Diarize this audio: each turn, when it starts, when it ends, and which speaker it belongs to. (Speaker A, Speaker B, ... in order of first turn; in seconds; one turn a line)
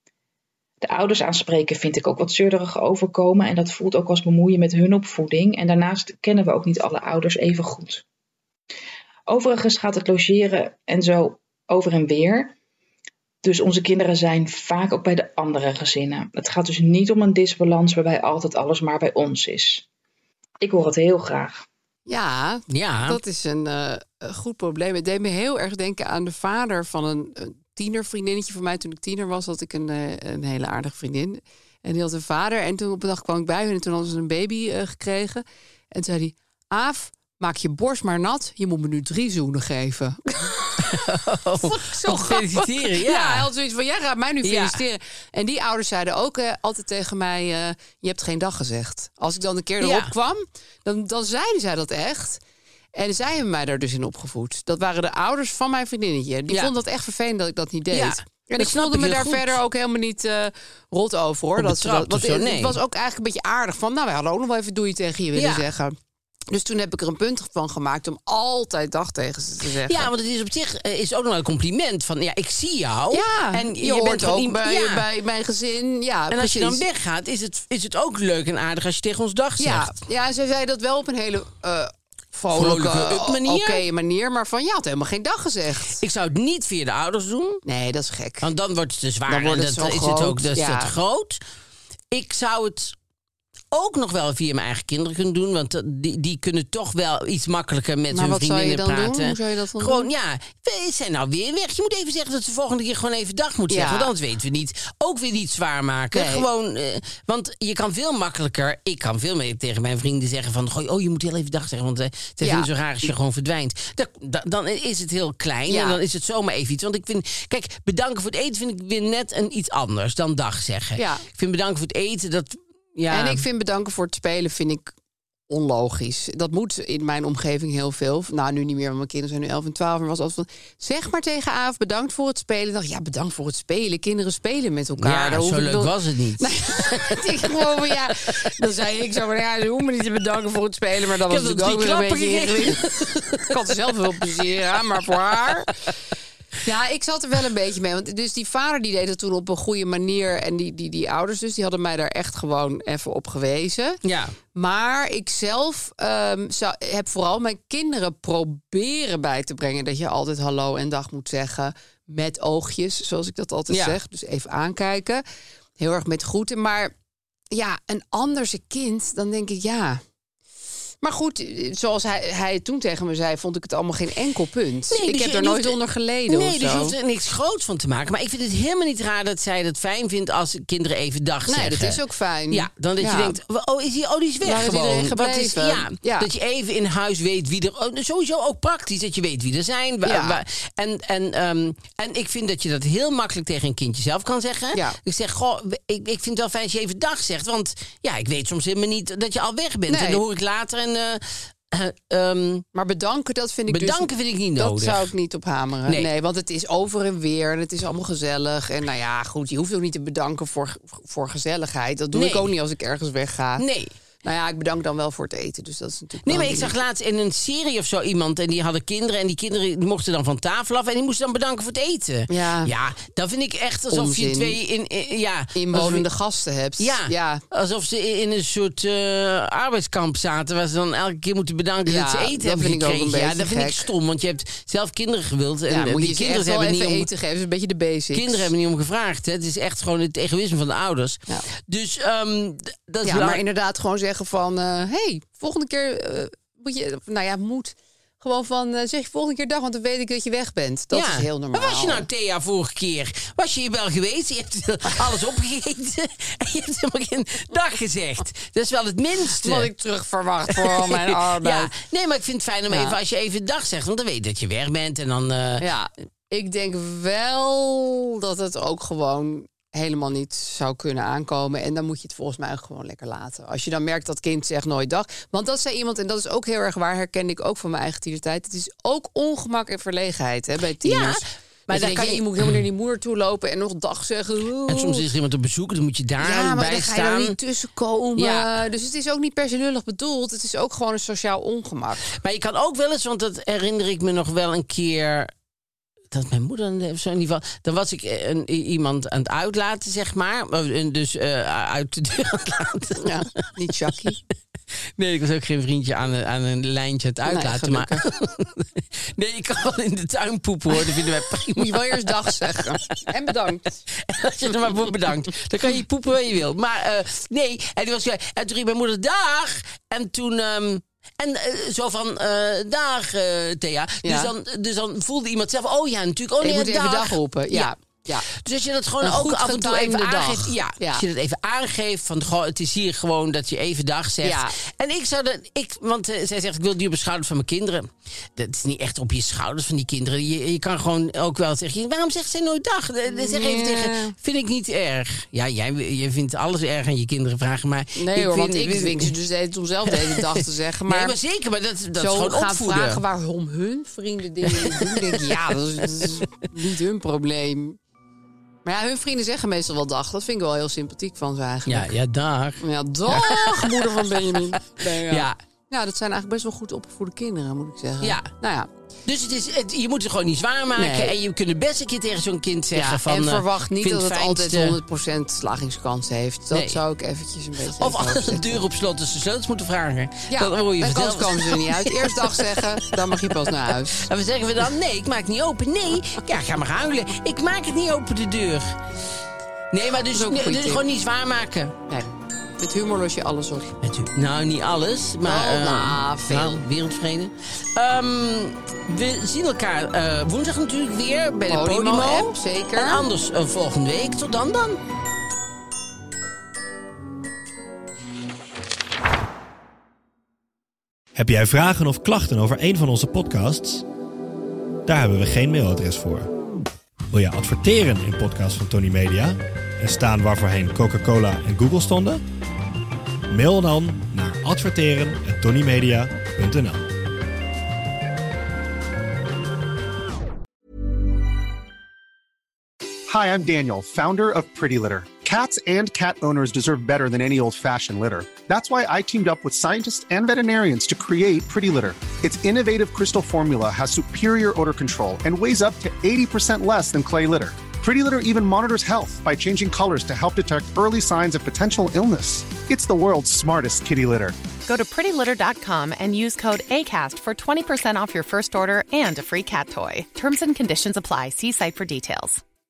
Speaker A: 0.8-8.0
Speaker A: 9.3-12.5
Speaker A: 13.4-19.9
Speaker A: 20.6-21.6
Speaker B: 22.1-41.0
Speaker C: 22.7-23.2
Speaker C: 40.8-43.5
Speaker B: 41.6-52.4
Speaker C: 44.4-44.8
Speaker C: 49.8-50.1
Speaker B: 53.0-66.0
Speaker C: 57.9-59.6
Speaker C: 61.6-62.8
Speaker C: 65.3-65.7
Speaker B: 66.5-70.1
Speaker C: 69.8-75.0
Speaker B: 73.1-76.8
Speaker C: 76.3-79.9
Speaker B: 79.6-86.0
Speaker C: 82.5-83.8
Speaker C: 86.0-87.6
Speaker B: 87.7-88.5
Speaker C: 88.4-91.4
Speaker B: 89.3-90.9
Speaker C: 92.1-93.0
Speaker C: 93.7-123.4
Speaker B: 98.1-100.1
Speaker B: 103.7-104.1
Speaker B: 106.1-106.5
Speaker B: 112.4-112.7
Speaker B: 115.7-116.0
Speaker B: 121.0-121.2
Speaker B: 123.1-124.9
Speaker B: 125.5-142.8
Speaker C: 135.0-137.5
Speaker C: 141.2-143.6
Speaker B: 143.4-145.9
Speaker B: 146.6-154.0
Speaker C: 154.0-154.3
Speaker B: 154.5-165.2
Speaker C: 163.7-164.0
Speaker B: 165.8-166.9
Speaker B: 167.5-170.0
Speaker B: 171.0-176.9
Speaker C: 174.9-175.8
Speaker C: 176.3-182.0
Speaker B: 181.5-183.3
Speaker C: 182.5-202.6
Speaker B: 184.4-186.3
Speaker B: 190.0-190.4
Speaker B: 199.9-200.2
Speaker B: 202.7-213.6
Speaker C: 203.7-205.1
Speaker C: 212.1-212.5
Speaker C: 213.6-213.9
Speaker B: 214.2-216.7
Speaker C: 216.2-226.0
Speaker B: 222.3-222.7
Speaker B: 223.9-224.6
Speaker B: 225.5-227.4
Speaker C: 226.8-237.1
Speaker B: 231.8-233.9
Speaker B: 235.7-238.5
Speaker C: 238.1-243.4
Speaker B: 243.0-252.0
Speaker C: 250.9-259.7
Speaker B: 259.4-261.7
Speaker C: 260.5-265.6
Speaker B: 262.7-262.9
Speaker B: 265.6-285.0
Speaker C: 280.8-282.6
Speaker C: 284.7-287.4
Speaker B: 286.2-292.1
Speaker C: 288.1-288.5
Speaker C: 292.1-295.3
Speaker C: 296.1-303.4
Speaker B: 303.0-304.2
Speaker C: 305.0-312.9
Speaker B: 307.3-308.0
Speaker B: 310.7-313.8
Speaker C: 313.9-327.7
Speaker B: 324.0-324.3
Speaker B: 326.4-328.2
Speaker C: 328.2-349.1
Speaker B: 329.0-331.0
Speaker B: 334.2-334.5
Speaker B: 343.1-344.1
Speaker B: 347.9-351.2
Speaker C: 349.9-353.0
Speaker B: 352.0-357.8
Speaker C: 354.4-356.3
Speaker B: 358.6-361.9
Speaker C: 361.6-365.4
Speaker B: 362.6-368.7
Speaker C: 368.0-368.3
Speaker C: 369.1-374.8
Speaker B: 370.8-371.1
Speaker B: 372.7-378.6
Speaker C: 376.5-376.8
Speaker C: 377.8-388.8
Speaker B: 380.3-384.1
Speaker C: 389.7-391.8
Speaker B: 390.1-390.8
Speaker B: 392.6-393.7
Speaker C: 393.8-404.8
Speaker B: 395.2-396.6
Speaker B: 401.5-403.0
Speaker D: 411.1-413.8
Speaker D: 414.9-416.3
Speaker D: 417.1-422.2
Speaker D: 423.3-426.9
Speaker E: 433.1-454.4
Speaker F: 454.6-462.4